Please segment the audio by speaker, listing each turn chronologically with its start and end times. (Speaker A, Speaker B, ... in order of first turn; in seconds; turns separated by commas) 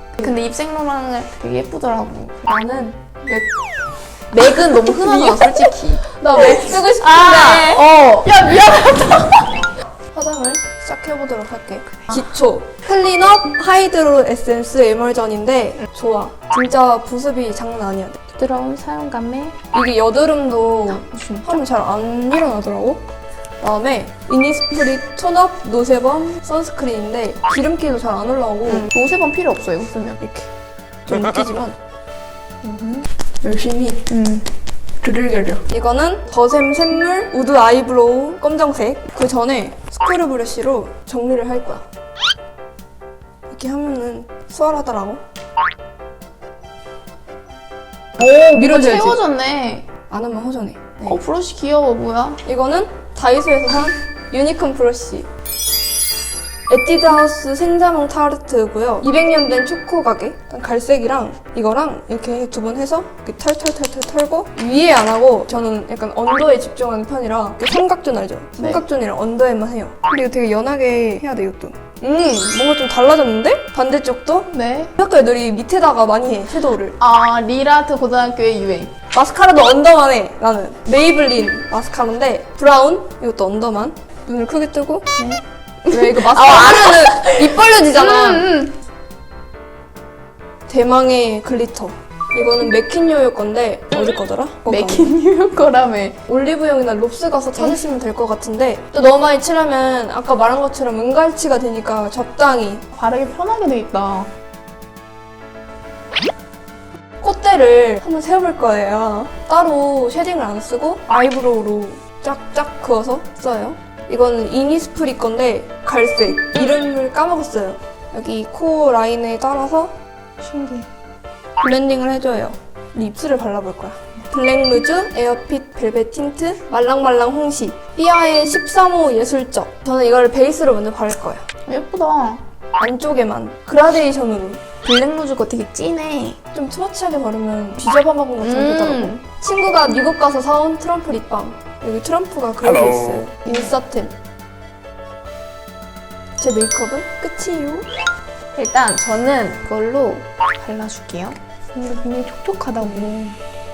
Speaker A: 0.2-2.5, Speaker B: 2.5-3.4, Speaker A: 4.3-9.7, Speaker B: 4.4-8.9, Speaker B: 10.1-18.2, Speaker A: 18.4-19.6, Speaker B: 19.7-23.0, Speaker A: 20.9-21.6, Speaker B: 23.6-28.9, Speaker A: 28.7-30.3, Speaker B: 31.1-31.8, Speaker A: 32.6-33.1, Speaker B: 33.4-34.1, Speaker A: 34.1-34.5, Speaker B: 35.0-41.9, Speaker B: 43.5-45.2, Speaker A: 48.2-49.9, Speaker B: 48.2-49.2, Speaker B: 50.1-51.2, Speaker A: 51.0-52.4, Speaker B: 52.5-55.3, Speaker B: 56.7-77.0, Speaker A: 68.6-68.8, Speaker A: 74.5-74.9, Speaker A: 77.0-79.0, Speaker B: 79.1-85.1, Speaker A: 85.2-88.8, Speaker B: 85.9-88.5, Speaker B: 90.7-95.1, Speaker A: 94.7-96.2, Speaker B: 96.3-102.8, Speaker A: 102.9-104.3, Speaker B: 107.2-119.9, Speaker A: 120.4-120.9, Speaker B: 121.6-131.4, Speaker A: 131.7-132.4, Speaker B: 132.8-134.6, Speaker A: 134.8-136.4, Speaker B: 136.5-144.1, Speaker A: 138.4-139.2, Speaker B: 146.4-147.9, Speaker A: 148.6-153.4, Speaker B: 152.8-153.1